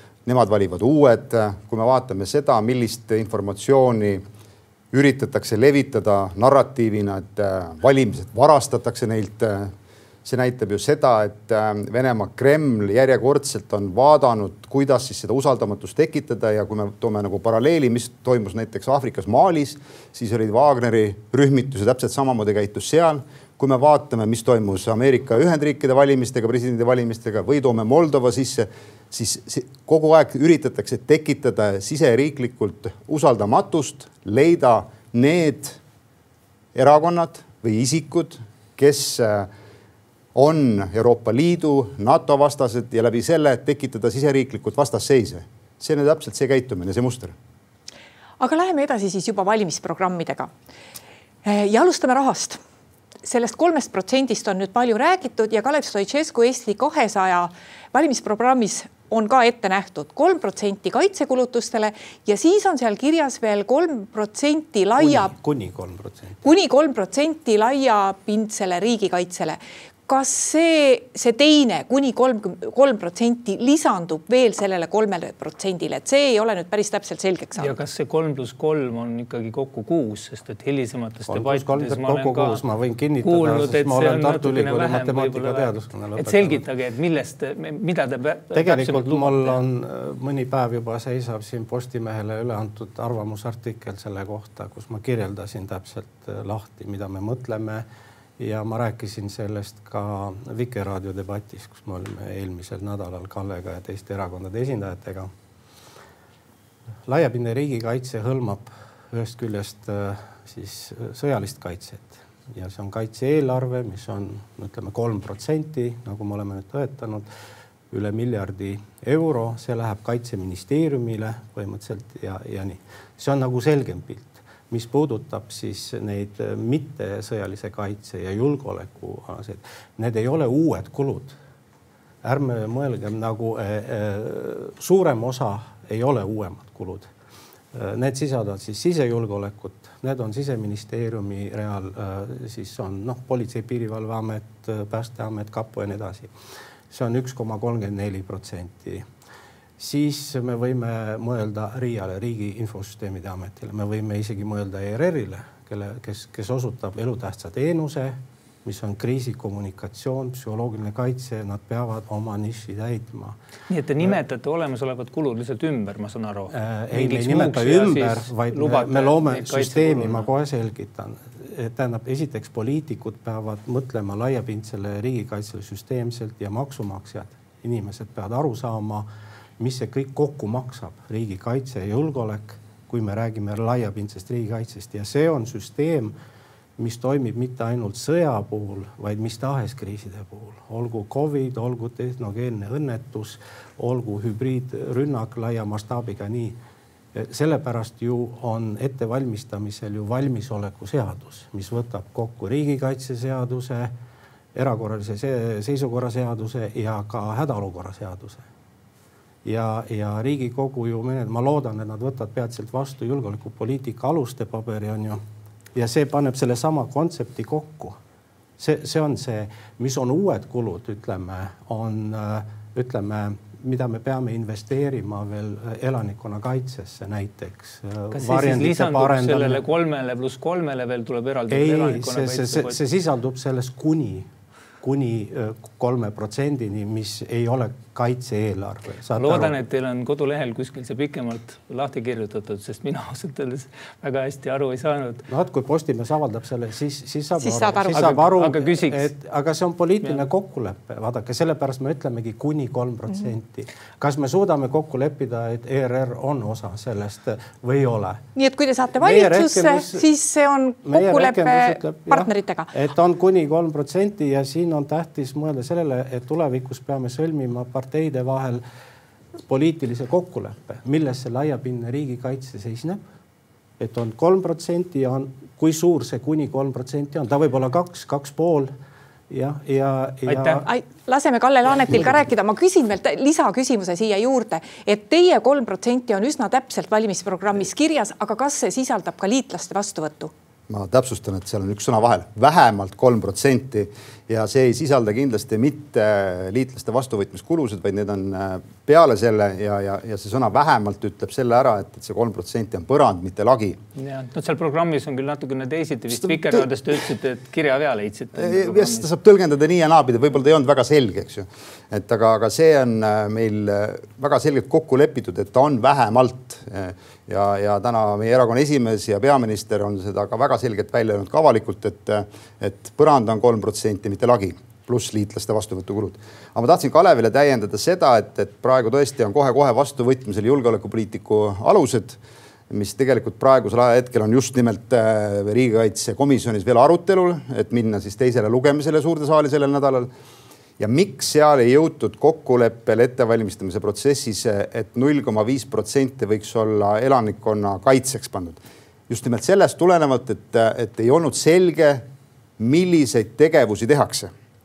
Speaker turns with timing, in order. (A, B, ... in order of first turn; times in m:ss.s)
0:00.3-0:04.2 A
0:04.9-0:09.7 A
0:10.2-0:35.8 A
0:36.8-0:39.5 A
0:40.4-0:47.4 A
0:48.4-0:50.5 B
0:51.4-0:52.6 B
0:53.2-1:05.3 B
1:05.0-1:06.5 C
1:06.4-1:17.8 B
1:17.6-1:22.6 D
1:21.3-1:26.6 C
1:23.2-1:29.6 D
1:28.5-1:37.8 C
1:38.4-1:45.3 C
1:47.1-1:57.3 C
1:57.9-2:11.4 C
2:12.2-2:17.1 C
2:17.7-2:26.3 C
2:26.9-2:29.1 C
2:29.8-2:43.4 C
2:43.7-2:50.3 D
2:46.5-2:59.1 C
2:59.6-3:06.2 C
3:06.8-3:16.6 C
3:17.1-3:23.9 C
3:24.6-3:28.5 C
3:29.4-3:35.2 C
3:35.8-3:38.0 C
3:38.6-3:49.6 C
3:48.1-3:52.8 D
3:51.5-3:54.3 C
3:54.8-3:59.6 C
3:59.2-4:05.3 D
4:05.3-4:18.2 C
4:07.4-4:08.2 B
4:07.9-4:09.1 D
4:18.4-4:22.7 B
4:19.0-4:20.1 C
4:20.8-4:28.6 C
4:29.5-4:33.0 C
4:33.8-4:38.7 C
4:39.3-4:40.7 C
4:40.3-4:40.5 D
4:40.6-4:50.3 B
4:50.7-5:03.8 A
5:04.0-5:09.1 D
5:06.2-5:06.6 A
5:08.4-5:32.2 A
5:32.7-5:40.1 A
5:40.8-5:52.0 A
5:52.6-5:54.3 A